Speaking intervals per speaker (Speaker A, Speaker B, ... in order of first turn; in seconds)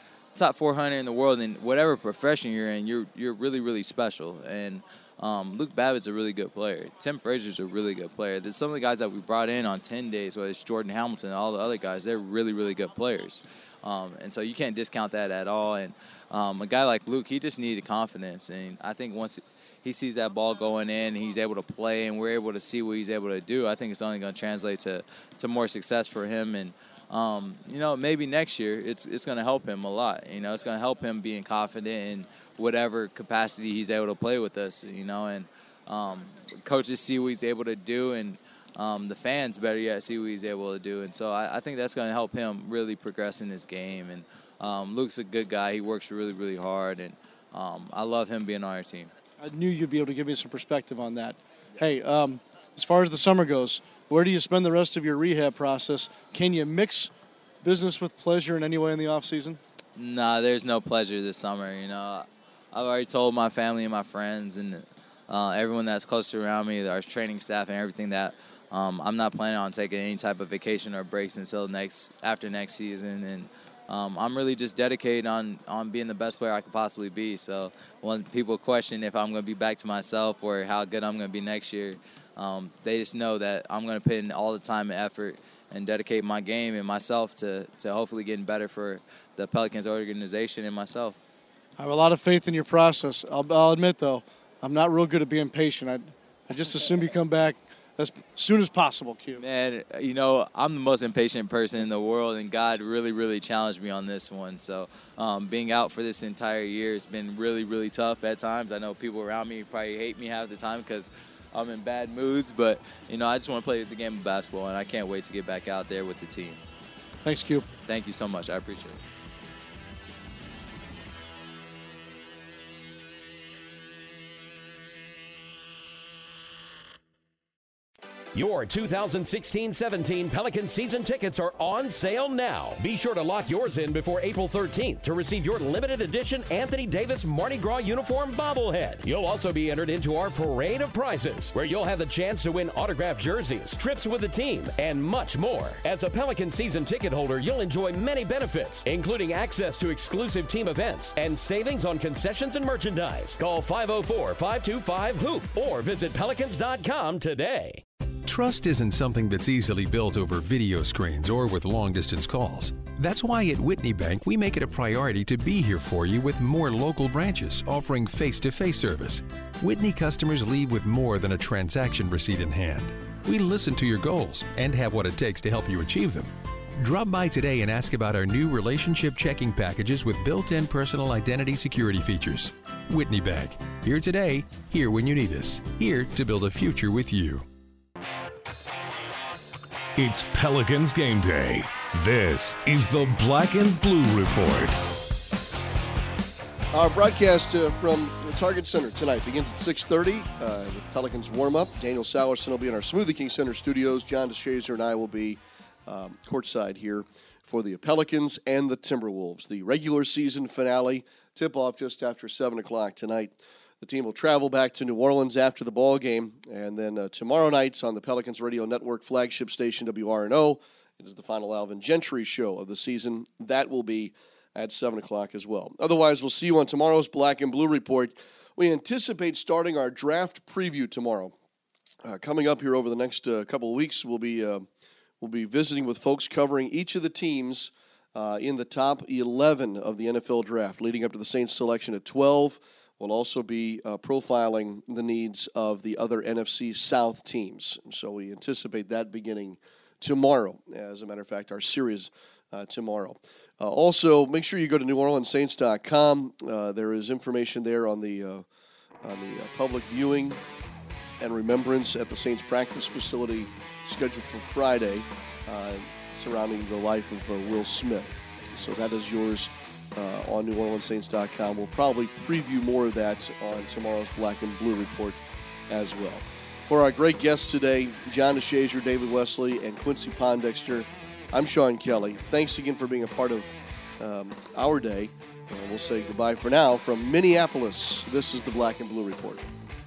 Speaker A: 0.3-49.1, 60.0-91.2, 99.4-116.6, 117.9-119.0
Speaker B: 49.4-57.1, 57.6-59.6, 91.8-99.4, 117.2-117.7
Speaker C: 128.3-157.8
Speaker D: 158.2-187.5
Speaker E: 190.0-194.8
Speaker F: 196.7-231.3, 232.0-234.7, 235.2-258.5, 259.0-260.4, 261.2-289.4